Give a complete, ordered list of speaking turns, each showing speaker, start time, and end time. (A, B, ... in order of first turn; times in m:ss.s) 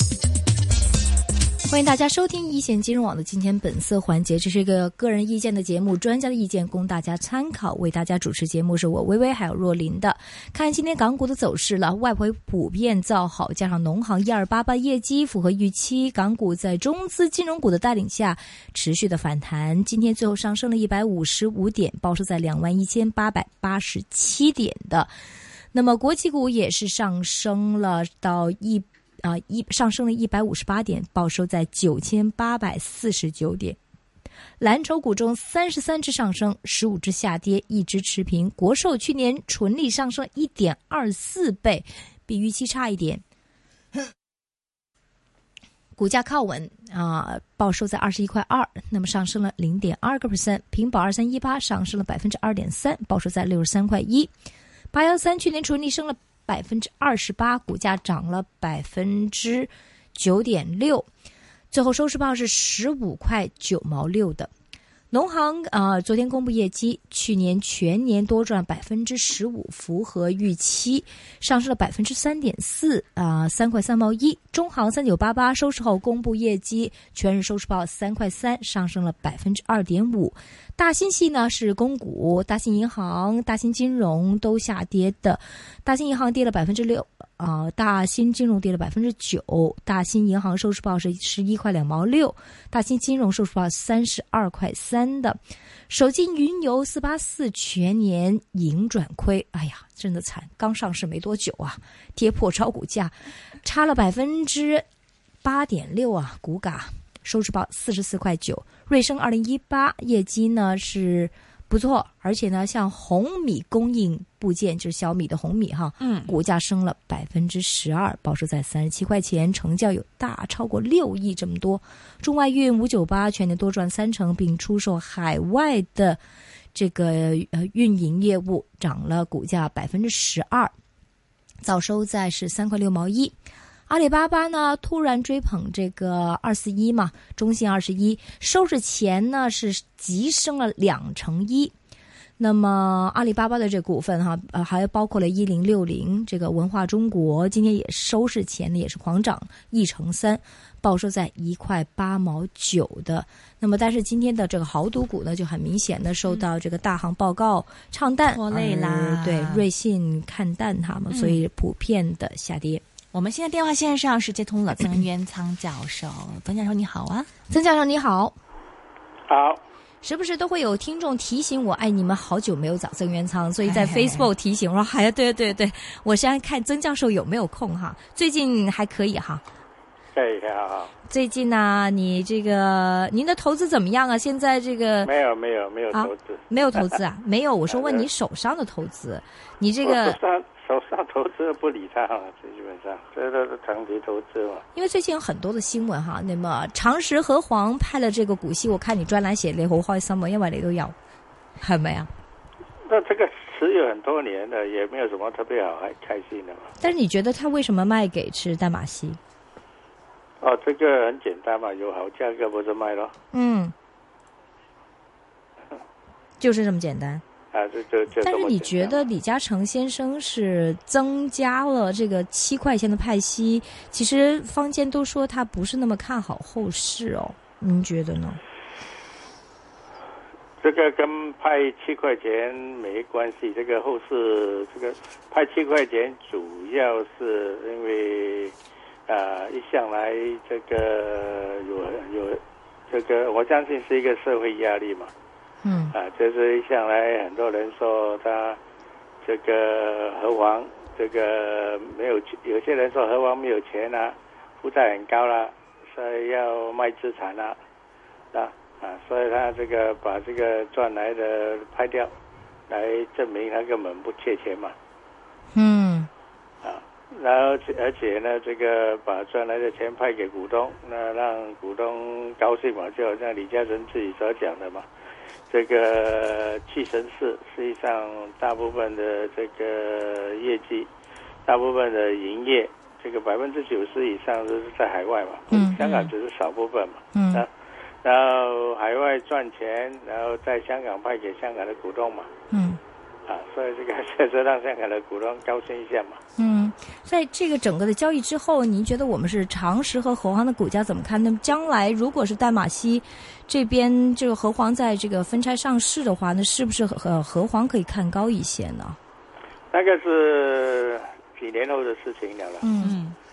0:01.7-0:25.1 A
0:25.7-0:33.8 A
0:34.6-0:43.2 A
0:46.0-0:54.3 A
0:54.9-1:01.1 A
1:01.7-1:04.5 A
1:05.1-1:44.8 A
1:45.4-2:06.2 A
1:56.0-1:56.3 B
2:06.7-2:10.7 A
2:11.6-2:13.3 A
2:13.9-2:21.7 A
2:22.4-2:42.8 A
2:38.3-2:39.7 B
2:41.1-2:41.4 B
2:43.1-2:47.3 B
2:47.5-2:48.4 A
2:49.3-2:49.6 C
2:50.0-2:59.4 A
2:53.6-2:54.3 B
3:00.1-3:00.9 C
3:01.1-3:05.1 A
3:05.0-3:07.0 C
3:05.9-3:10.2 A
3:07.7-3:08.1 C
3:09.8-3:14.6 C
3:14.8-3:21.0 A
3:21.6-3:22.1 A
3:22.9-3:26.8 C
3:26.8-3:29.2 A
3:30.4-3:33.1 C
3:33.3-3:33.7 A
3:36.4-3:37.2 A
3:37.5-3:39.0 C
3:38.2-3:48.4 A
3:50.6-3:58.6 C
3:59.1-4:05.1 C
4:05.6-4:06.0 A
4:05.9-4:08.6 C
4:09.2-4:17.6 C
4:18.3-4:22.1 C
4:22.7-4:24.8 C
4:25.5-4:26.1 A
4:26.6-4:34.9 C
4:35.5-4:40.9 C
4:41.5-4:47.5 C
4:45.5-4:45.8 A
4:45.8-4:46.1 B
4:47.1-4:47.4 A
4:48.0-4:52.3 C
4:52.5-4:52.8 A
4:53.3-4:56.2 C
4:56.4-5:09.0 A
5:09.7-5:12.7 C
5:12.6-5:13.0 A
5:12.8-5:13.2 B